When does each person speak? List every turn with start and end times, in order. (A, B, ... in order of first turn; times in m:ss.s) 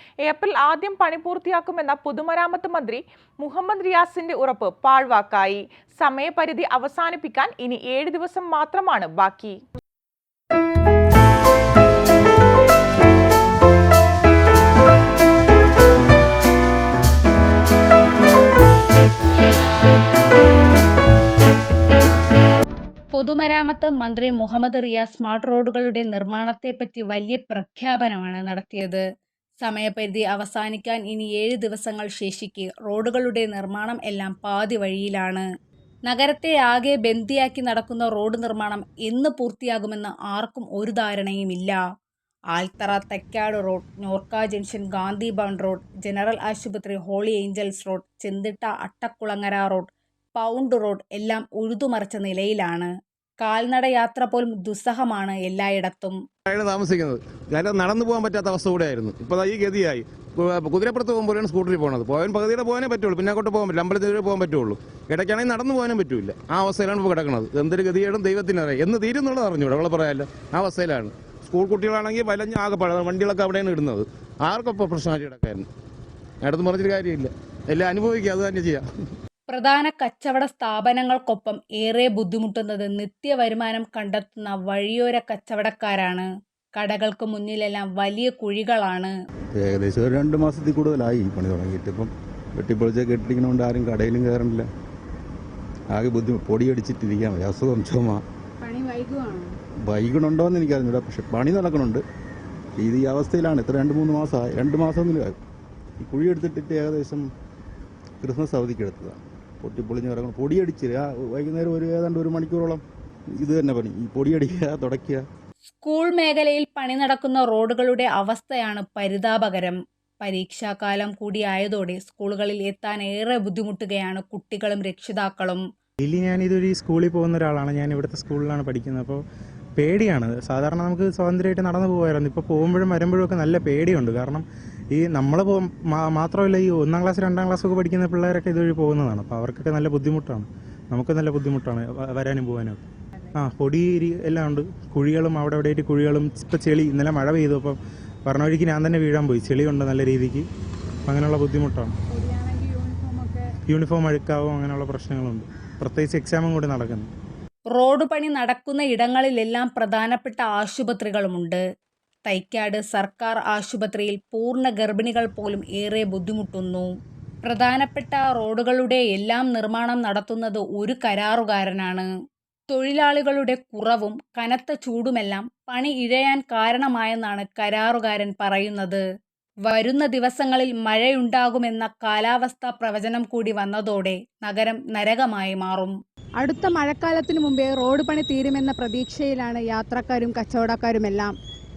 0:00.2-0:09.6 A
0:23.1-0:29.0 B
0:29.6-0:35.5 B
0:36.1-0:41.8 B
0:42.5-0:56.2 B
0:56.5-1:15.7 C
1:16.4-1:18.9 C
1:19.5-1:29.1 B
1:29.5-1:34.7 D
1:35.9-1:38.2 D
1:38.6-1:39.5 E
1:39.9-1:42.0 D
1:42.8-1:45.4 D
1:46.0-1:47.3 D
1:48.2-1:52.8 D
1:53.4-1:55.2 D
1:55.7-2:05.6 B
2:06.0-2:09.2 F
2:09.8-2:22.8 F
2:23.4-2:30.4 F
2:31.1-2:31.9 F
2:32.1-2:33.4 E
2:33.7-2:37.1 F
2:37.7-2:41.6 B
2:42.3-2:46.9 B
2:47.4-2:52.1 B
2:52.7-2:59.0 B
2:59.6-3:05.9 B
3:06.4-3:11.4 E